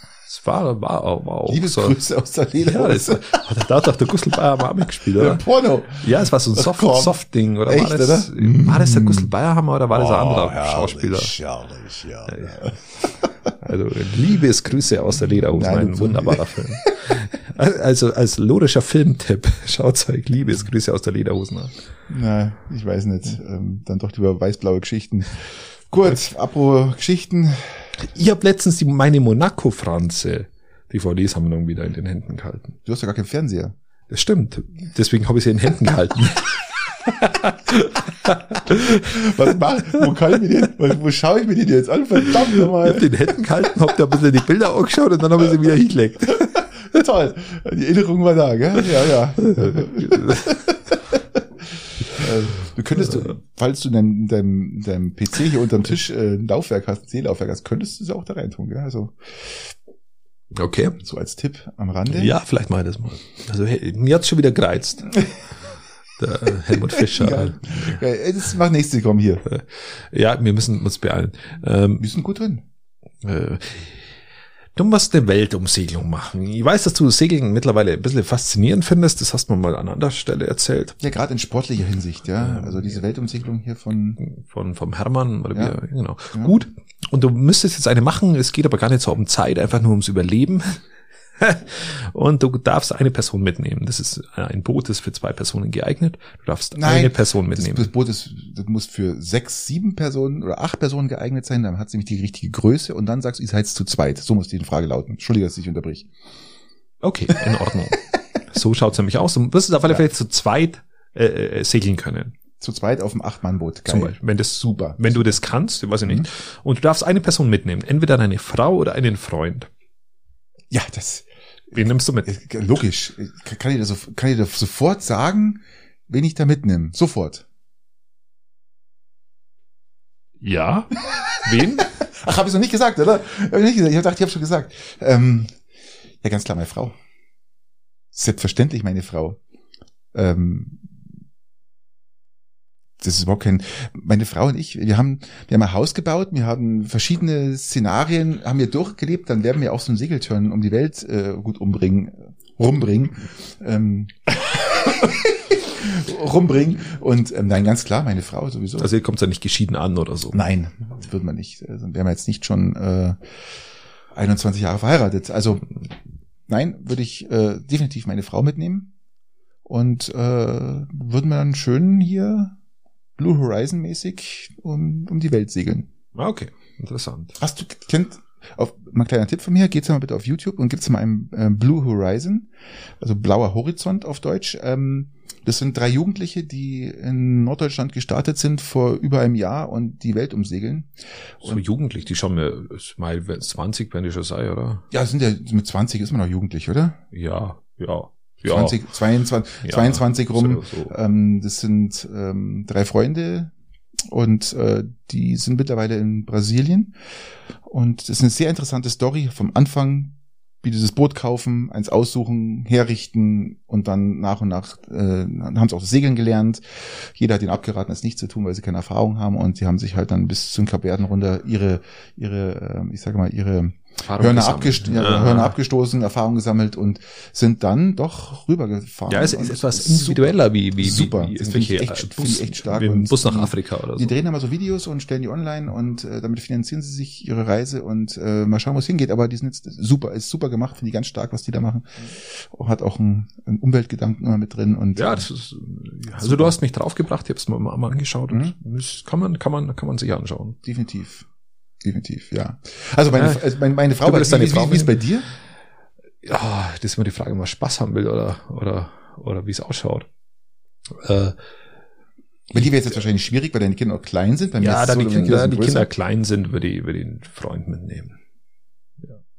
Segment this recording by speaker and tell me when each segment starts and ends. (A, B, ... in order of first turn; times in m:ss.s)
0:00.3-0:02.0 A
0:01.5-0:03.4 B
0:02.6-0:05.4 A
0:05.0-0:09.3 B
0:06.0-0:11.4 A
0:09.9-0:13.5 B
0:12.2-0:12.8 A
0:13.6-0:21.8 A
0:15.3-0:17.2 B
0:22.1-0:27.9 B
0:28.0-0:32.8 A
0:32.9-0:33.8 B
0:34.1-0:39.3 A
0:38.7-0:43.6 B
0:42.5-0:46.7 A
0:46.4-0:51.4 B
0:49.4-0:50.6 A
0:52.0-0:59.7 B
1:00.5-1:01.0 A
1:01.0-1:02.3 B
1:02.1-1:05.2 A
1:06.2-1:08.0 A
1:06.7-1:09.4 B
1:09.5-1:12.0 A
1:12.0-1:12.6 B
1:13.2-1:14.0 A
1:14.8-1:21.0 A
1:21.0-1:24.2 B
1:22.4-1:23.0 A
1:24.2-1:30.8 A
1:31.4-1:37.9 A
1:36.8-1:46.1 B
1:47.0-1:52.4 A
1:52.6-1:55.2 B
1:53.9-1:59.7 A
2:00.7-2:07.4 B
2:01.7-2:02.3 A
2:10.4-2:11.9 A
2:11.1-2:15.5 B
2:16.2-2:16.9 B
2:18.1-2:19.4 B
2:20.1-2:20.9 B
2:23.0-2:38.9 B
2:38.8-2:40.4 A
2:40.3-2:43.2 B
2:44.1-2:45.7 B
2:46.5-2:48.9 B
2:49.6-2:52.6 B
2:53.2-2:55.9 B
2:56.2-2:57.4 A
2:57.4-3:02.5 B
3:03.0-3:11.6 B
3:11.4-3:14.8 A
3:14.9-3:17.0 B
3:17.1-3:18.8 A
3:18.5-3:23.5 B
3:19.6-3:20.9 A
3:24.1-3:27.0 B
3:27.7-4:05.3 B
3:44.0-3:45.6 A
3:49.1-3:54.1 A
4:05.0-4:10.6 A
4:06.2-4:06.6 B
4:10.6-4:11.3 B
4:11.8-4:15.3 B
4:13.2-4:13.4 A
4:14.0-4:15.0 A
4:16.2-4:20.1 A
4:20.9-4:21.4 A
4:22.5-4:25.9 B
4:24.6-4:28.2 A